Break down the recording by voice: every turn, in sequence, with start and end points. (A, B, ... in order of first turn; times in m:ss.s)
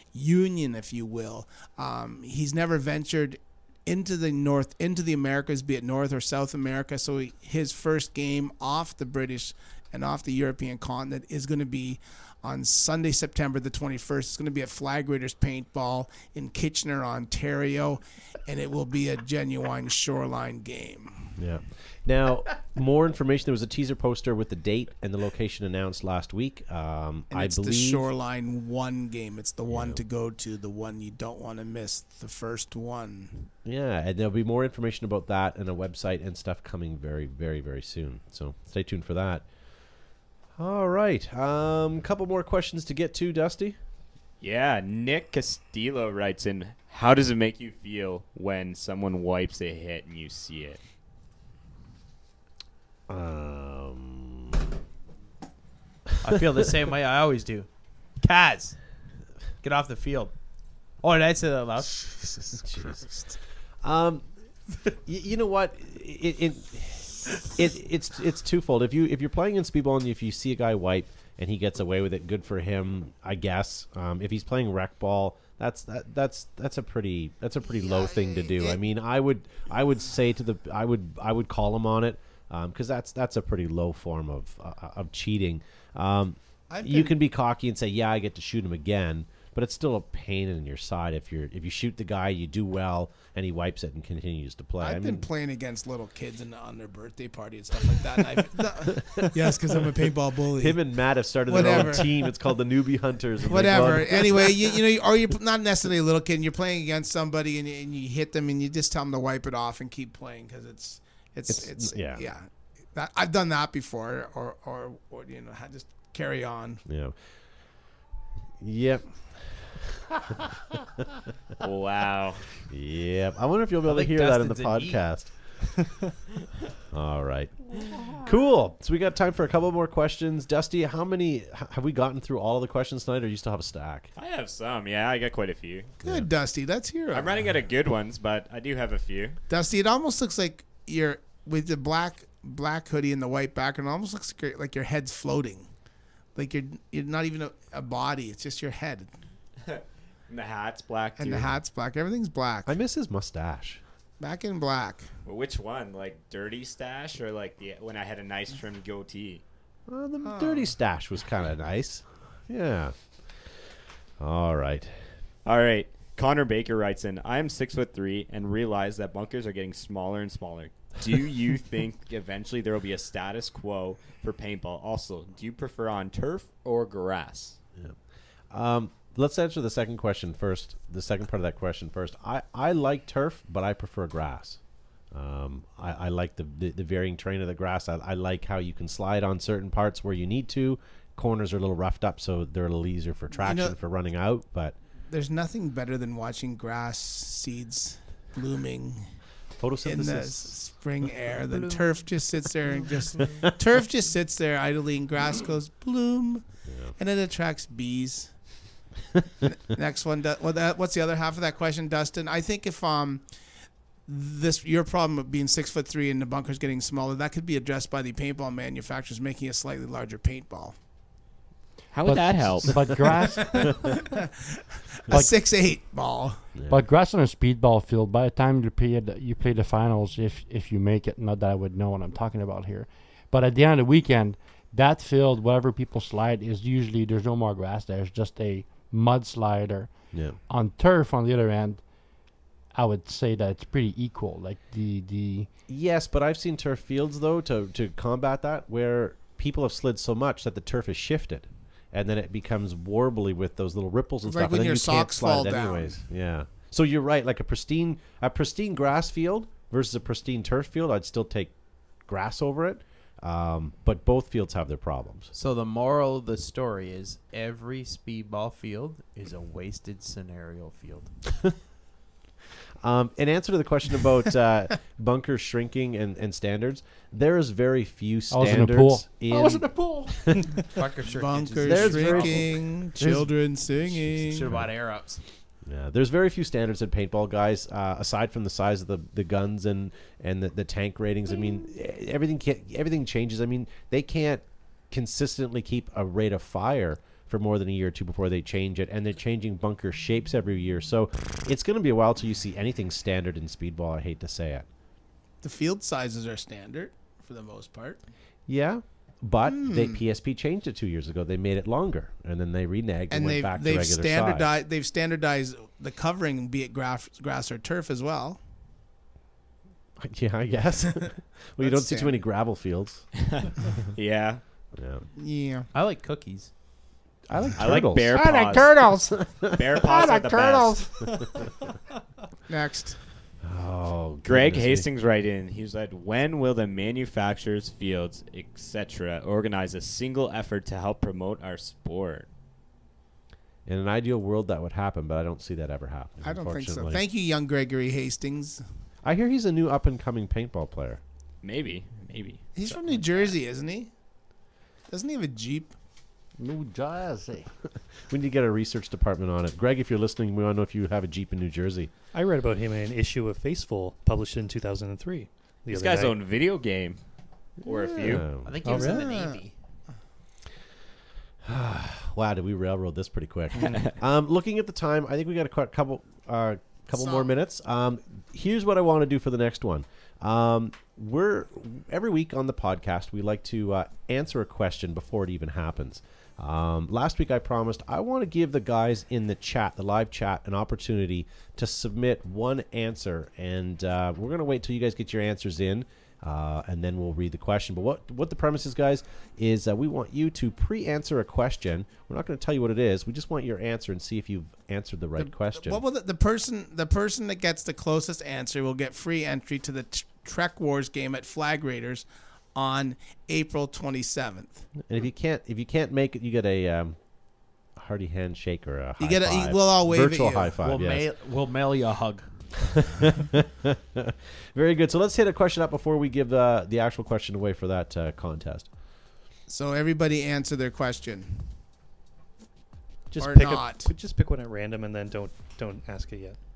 0:00.1-0:21.4 A
0:21.4-0:28.1 B
0:27.3-0:33.5 A
0:29.7-0:30.0 B
0:33.6-0:39.4 B
0:40.6-0:43.8 B
0:44.4-0:50.8 C
0:53.1-0:54.6 B
0:56.2-0:57.7 D
0:58.2-0:58.8 D
0:59.6-1:00.3 D
1:01.0-1:02.2 D
1:02.4-1:03.1 B
1:03.8-1:04.2 B
1:04.9-1:35.2 B
1:17.6-1:18.8 A
1:26.7-1:27.2 A
1:34.8-1:40.8 A
1:38.8-1:39.6 B
1:40.6-1:44.8 B
1:41.4-1:42.3 A
1:43.4-1:56.8 A
1:51.5-1:52.2 B
1:56.8-1:57.2 B
1:58.6-2:01.2 B
2:01.6-2:02.5 C
2:02.7-2:05.3 B
2:03.8-2:05.0 D
2:06.9-2:14.1 B
2:14.2-2:15.9 C
2:16.0-2:17.3 A
2:16.0-2:16.3 B
2:17.1-2:19.4 C
2:19.5-2:25.7 A
2:26.3-2:29.1 A
2:29.6-2:31.5 C
2:31.2-2:32.7 A
2:32.6-2:33.8 B
2:34.2-2:35.1 A
2:35.2-2:39.4 C
2:39.9-2:42.9 B
2:40.2-2:40.7 A
2:44.2-2:44.9 B
2:45.4-2:57.6 C
2:58.5-3:04.6 B
3:05.1-3:14.7 B
3:13.4-3:13.7 A
3:15.1-3:19.0 A
3:19.6-3:20.5 B
3:19.8-3:26.4 A
3:26.7-3:26.9 B
3:27.0-3:28.3 A
3:29.4-3:33.2 A
3:34.1-3:40.7 A
3:41.9-3:43.1 C
3:42.0-3:44.0 E
3:43.4-3:46.4 A
3:46.7-3:59.9 E
4:00.1-4:00.4 B
4:00.5-4:01.8 E
4:02.7-4:05.5 E
4:05.7-4:21.5 B
4:14.2-4:16.0 A
4:22.0-4:25.3 B
4:25.3-4:31.1 D
4:32.8-4:40.4 B
4:38.3-4:40.2 E
4:40.6-4:42.5 D
4:41.0-4:44.6 A
4:41.6-4:43.3 B
4:44.1-4:45.2 D
4:45.6-5:04.7 B
5:05.4-5:08.0 A
5:08.5-5:14.5 B
5:09.4-5:10.0 A
5:13.1-5:18.4 A
5:20.0-5:23.0 B
5:21.6-5:22.2 A
5:23.2-5:24.4 C
5:24.7-5:25.0 B
5:25.2-5:25.7 A
5:25.7-5:26.5 D
5:27.3-5:29.9 B
5:27.6-5:28.8 C
5:28.1-5:29.0 E
5:29.5-5:30.9 C
5:29.8-5:30.9 E
5:32.5-5:33.0 A
5:33.4-5:34.9 B
5:34.2-5:42.3 C
5:43.6-5:47.0 B
5:46.2-5:48.6 A
5:49.0-5:51.0 B
5:51.4-5:52.7 C
5:52.5-5:53.9 A
5:54.9-5:55.7 A
5:56.4-5:57.5 E
5:58.0-6:01.9 B
6:02.1-6:06.2 F
6:05.7-6:07.0 C
6:07.6-6:08.2 C
6:07.6-6:08.6 B
6:08.4-6:09.5 D
6:08.6-6:09.1 F
6:08.6-6:09.4 A
6:11.4-6:45.8 B
6:17.0-6:17.3 A
6:45.2-6:54.7 A
6:54.8-6:57.0 B
6:57.7-7:01.1 B
6:59.0-7:00.6 A
7:00.6-7:02.2 D
7:02.6-7:08.7 B
7:09.5-7:11.5 A
7:13.1-7:16.4 F
7:13.2-7:13.9 A